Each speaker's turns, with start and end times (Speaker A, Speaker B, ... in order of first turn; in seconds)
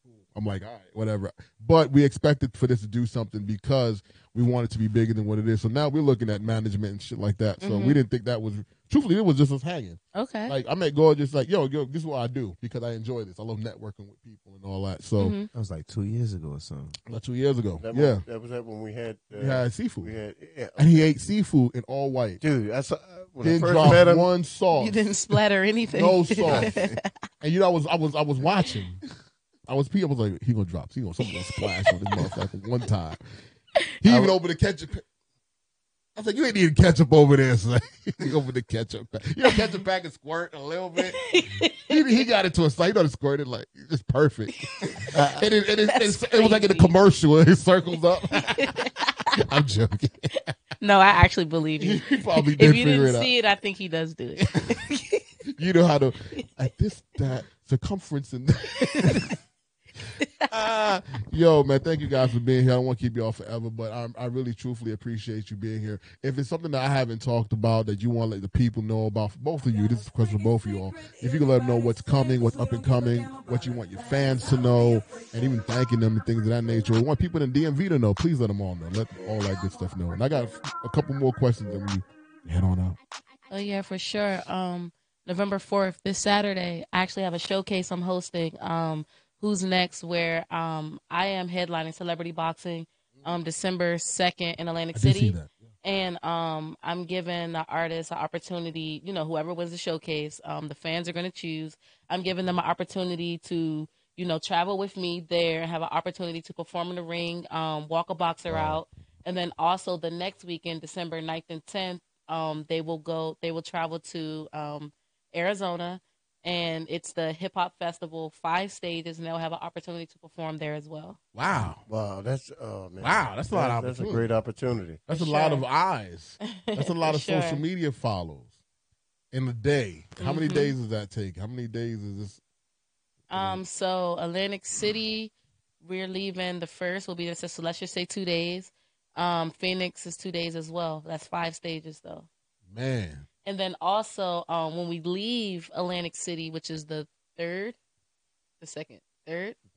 Speaker A: 0.3-15.3, 17.1-18.2, 19.3-20.1, 20.8-22.4, 23.4-25.1, 25.9-26.7, 27.4-29.0, 29.7-33.2, 34.0-35.0, 36.1-50.5, 51.8-53.3, 55.5-59.3, 60.5-83.0, 94.9-95.5, 121.3-121.8, 123.0-124.4, 125.1-128.5, 129.3-132.4, 133.3-133.6, 142.7-143.2
Speaker B: 7.6-8.0, 10.1-10.5, 15.2-15.5, 24.7-27.0, 41.1-41.7, 45.9-46.9, 48.4-49.3, 50.8-55.2, 83.5-121.2, 125.1-125.6, 126.5-127.6, 130.2-130.7, 133.3-135.3, 135.8-142.3, 143.4-147.8, 148.6-149.6
Speaker C: 15.5-17.0, 26.5-27.0
Speaker D: 17.8-21.1, 22.4-24.3, 45.1-45.4, 121.9-125.0